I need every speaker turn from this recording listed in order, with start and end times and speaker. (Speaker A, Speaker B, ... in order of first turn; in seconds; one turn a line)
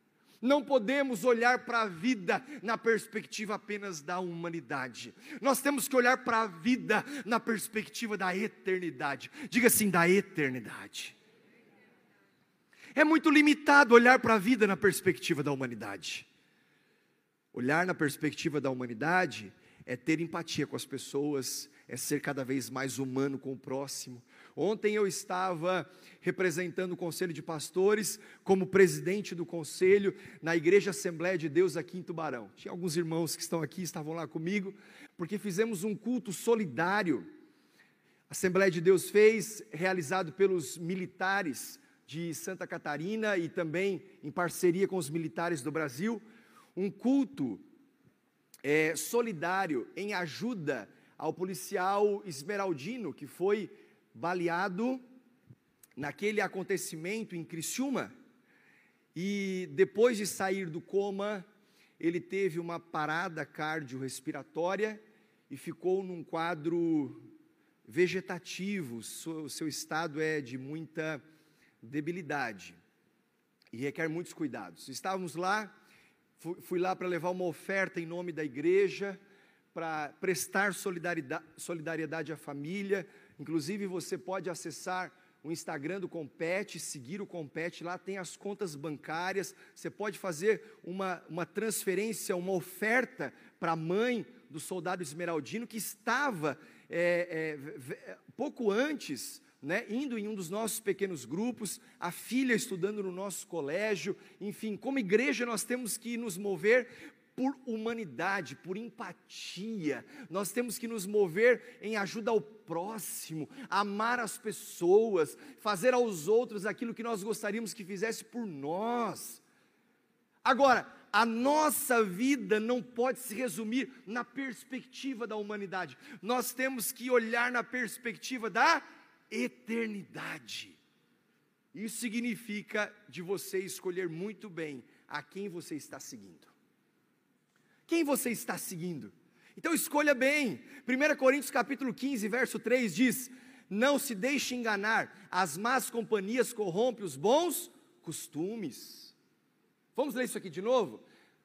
Speaker A: 0.4-11.2
Speaker A: 13.0-16.3
Speaker A: 17.5-37.3
Speaker A: 38.3-46.2
Speaker A: 46.8-47.6
Speaker A: 48.6-55.0
Speaker A: 56.0-58.1
Speaker A: 59.1-61.5
Speaker A: 62.0-67.2
Speaker A: 67.9-71.2
Speaker A: 71.8-72.8
Speaker A: 73.7-75.7
Speaker A: 76.4-79.2
Speaker A: 79.7-119.4
Speaker A: 120.5-130.8
Speaker A: 131.7-136.5
Speaker A: 137.9-149.2
Speaker A: 149.9-151.1